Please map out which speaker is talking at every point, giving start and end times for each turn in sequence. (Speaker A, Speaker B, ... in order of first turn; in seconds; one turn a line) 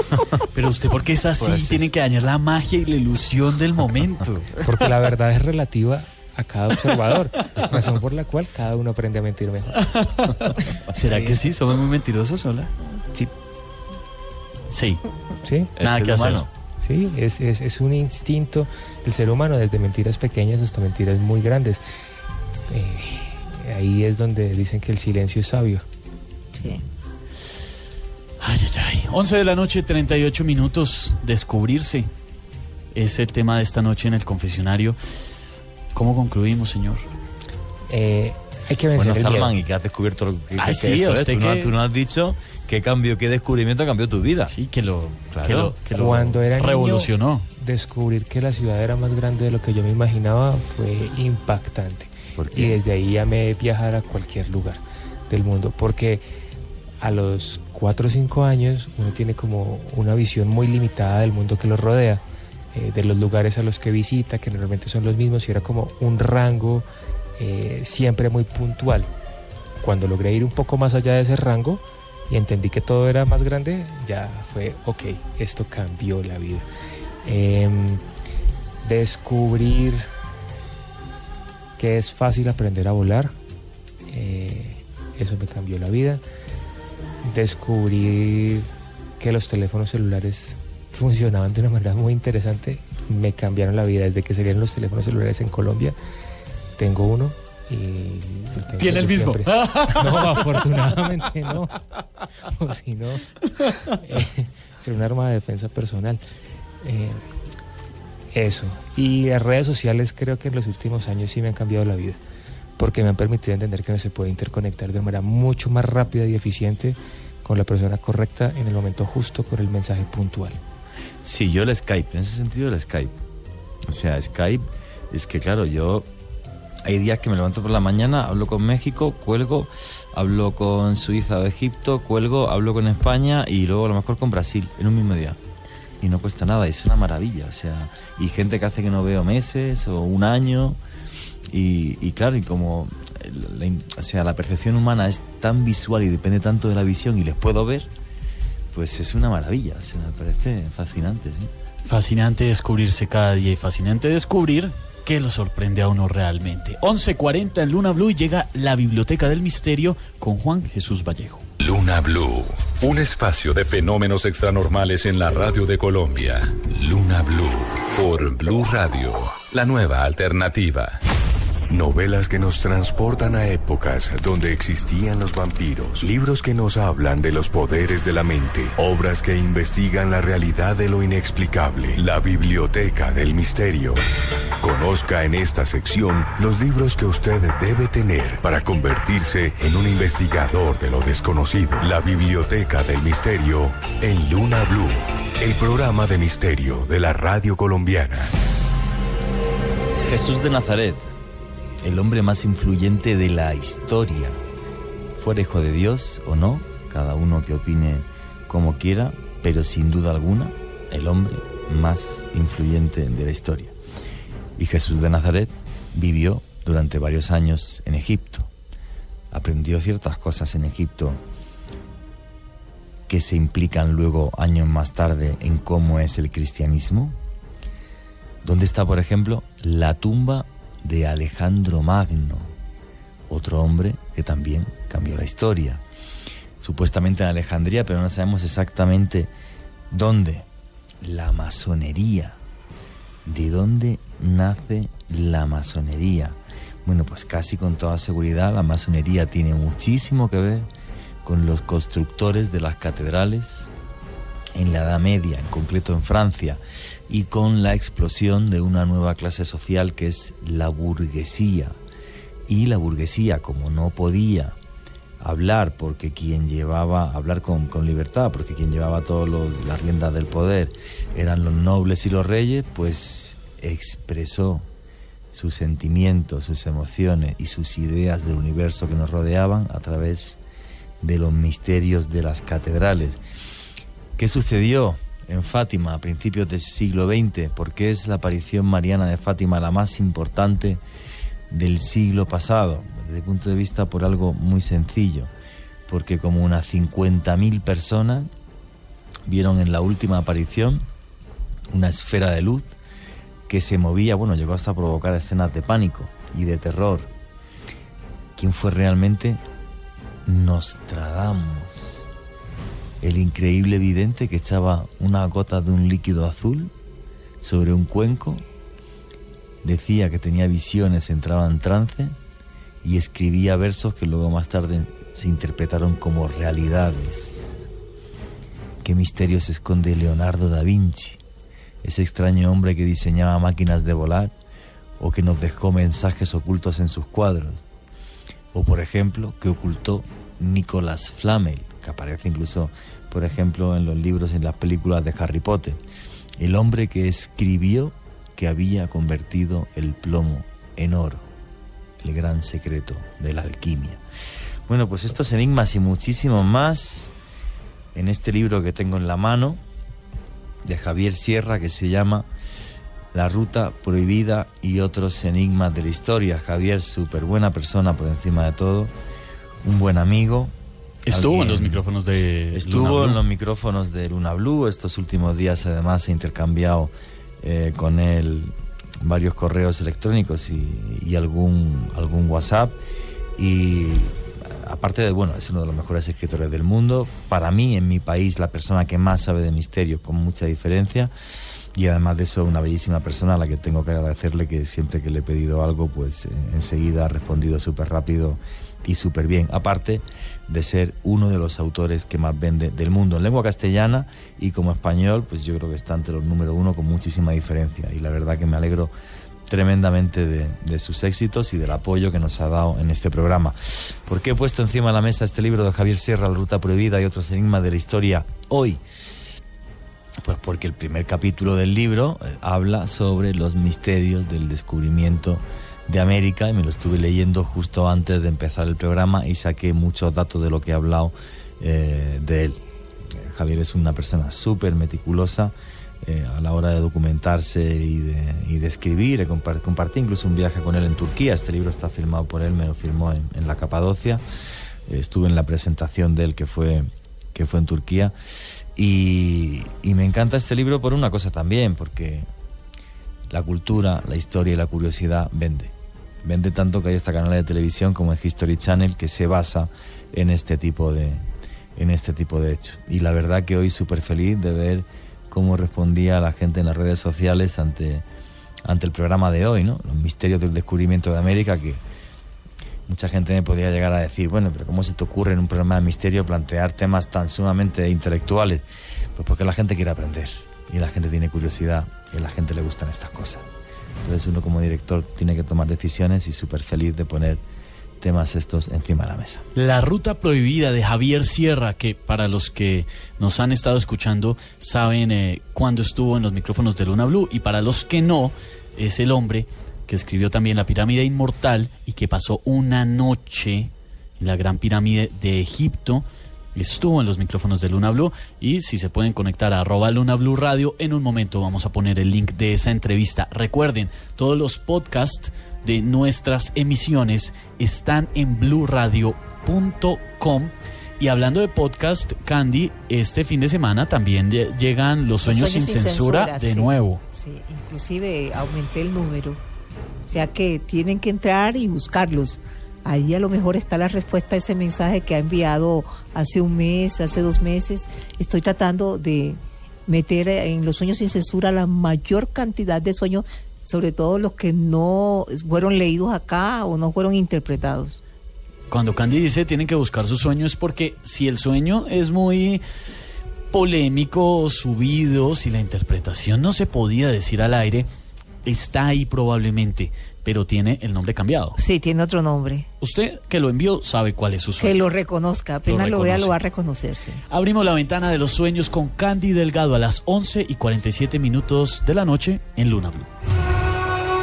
Speaker A: 0.5-4.6
Speaker B: 1.4-1.8
Speaker C: 4.6-9.8
Speaker A: 9.9-10.3
Speaker A: 10.9-12.7
Speaker A: 14.7-15.0
Speaker C: 15.4-15.7
Speaker B: 15.8-16.5
Speaker A: 15.8-16.4
Speaker C: 16.8-21.8
Speaker C: 22.7-25.9
Speaker D: 26.6-26.8
Speaker A: 28.4-32.1
Speaker A: 32.9-35.0
Speaker A: 35.9-37.1
Speaker C: 37.9-39.5
Speaker B: 39.0-44.5
Speaker A: 40.6-41.7
Speaker A: 44.5-47.5
Speaker B: 45.3-45.8
Speaker C: 45.9-56.2
Speaker B: 52.4-52.8
Speaker C: 57.0-62.2
Speaker C: 62.7-66.9
Speaker C: 67.4-69.1
Speaker C: 69.8-76.7
Speaker C: 77.2-78.0
Speaker C: 78.8-80.1
Speaker C: 81.8-83.3
Speaker C: 84.1-86.2
Speaker C: 87.2-88.7
Speaker C: 89.2-96.0
Speaker C: 96.8-101.8
Speaker A: 98.8-100.4
Speaker C: 102.5-103.3
Speaker C: 104.0-106.2
Speaker C: 106.8-107.2
Speaker C: 108.3-112.2
Speaker C: 112.8-120.6
Speaker B: 121.2-123.2
Speaker B: 123.9-126.1
Speaker B: 126.8-135.4
Speaker B: 136.0-140.8
Speaker B: 141.5-147.9
Speaker B: 148.7-151.5
Speaker A: 151.9-161.4
Speaker E: 161.6-171.0
Speaker F: 171.7-184.0
Speaker F: 184.6-198.3
Speaker B: 200.0-201.1
Speaker B: 201.8-204.4
Speaker B: 205.2-213.8
Speaker B: 214.6-218.5
Speaker B: 219.3-221.2
Speaker B: 223.1-227.2
Speaker B: 228.4-232.5
Speaker B: 233.3-235.8
Speaker B: 236.6-239.3
Speaker B: 239.9-240.5
Speaker B: 241.0-242.4
Speaker B: 243.2-250.7
Speaker B: 251.2-253.7
Speaker B: 254.6-261.8
Speaker B: 262.5-264.6
Speaker B: 265.2-274.7
Speaker B: 275.3-280.4
Speaker B: 281.0-283.2
Speaker B: 284.2-290.8
Speaker B: 291.5-295.3
Speaker B: 295.9-298.3
Speaker B: 299.3-300.9
Speaker B: 301.7-302.7
Speaker B: 303.5-307.1
Speaker B: 308.4-309.4
Speaker B: 310.2-312.1
Speaker B: 313.0-316.7
Speaker B: 317.4-318.4
Speaker B: 319.6-322.2
Speaker B: 322.8-327.6
Speaker B: 328.8-331.2
Speaker B: 331.8-334.3
Speaker B: 335.0-337.6
Speaker B: 338.5-345.8
Speaker B: 346.4-351.2
Speaker B: 352.0-354.0
Speaker B: 354.7-357.1
Speaker B: 357.9-359.6
Speaker B: 360.6-362.3
Speaker B: 363.1-368.9
Speaker B: 369.6-370.5
Speaker A: 371.1-373.2
Speaker B: 371.1-371.8
Speaker B: 372.6-382.8
Speaker B: 383.4-391.1
Speaker B: 391.8-408.9
Speaker B: 409.5-418.8
Speaker B: 420.2-432.6
Speaker B: 433.1-444.2
Speaker B: 444.9-448.1
Speaker B: 448.8-452.3
Speaker B: 453.3-468.1
Speaker B: 468.6-471.8
Speaker B: 472.9-483.4
Speaker B: 484.0-487.4
Speaker B: 488.0-489.4
Speaker A: 489.6-527.0
Speaker D: 525.2-529.4
Speaker D: 530.1-548.0
Speaker A: 548.7-552.6
Speaker A: 553.5-557.9
Speaker A: 558.5-561.6
Speaker D: 561.5-562.7
Speaker A: 562.8-564.9
Speaker D: 564.6-567.2
Speaker A: 565.6-566.4
Speaker A: 567.3-573.1